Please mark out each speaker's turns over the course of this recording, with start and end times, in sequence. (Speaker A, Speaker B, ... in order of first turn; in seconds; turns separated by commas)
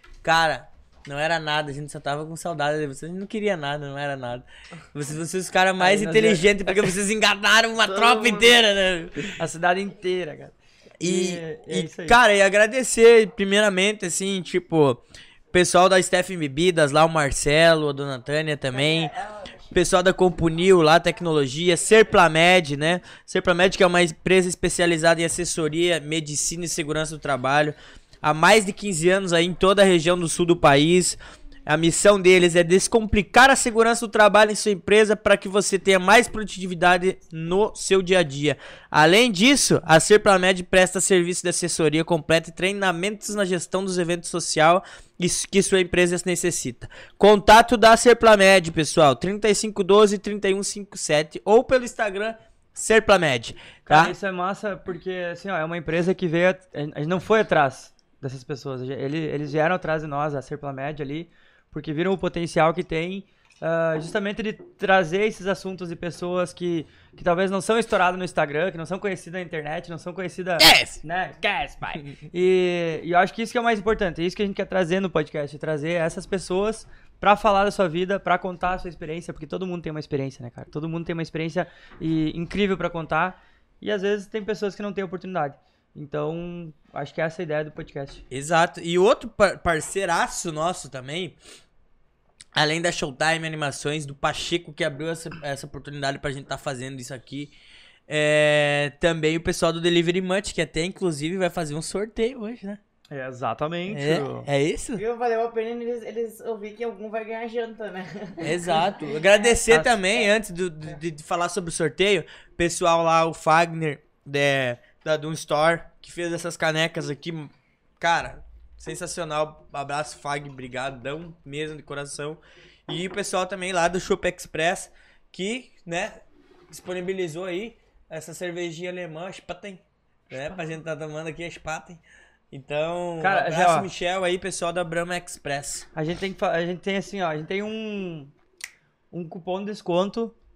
Speaker A: 0.2-9.4, Speaker B: 5.8-6.8, Speaker C: 7.8-8.6, Speaker B: 9.4-12.2, Speaker A: 11.0-15.0, Speaker A: 15.5-19.1, Speaker C: 18.7-19.7, Speaker A: 19.7-54.1, Speaker B: 53.9-88.2, Speaker A: 70.6-71.0, Speaker A: 88.3-91.4, Speaker A: 92.5-97.5, Speaker A: 98.1-102.8, Speaker B: 103.1-104.5, Speaker A: 103.9-105.0, Speaker C: 105.0-109.6, Speaker A: 108.4-135.9, Speaker B: 133.2-133.9, Speaker B: 135.9-138.3, Speaker B: 139.1-140.3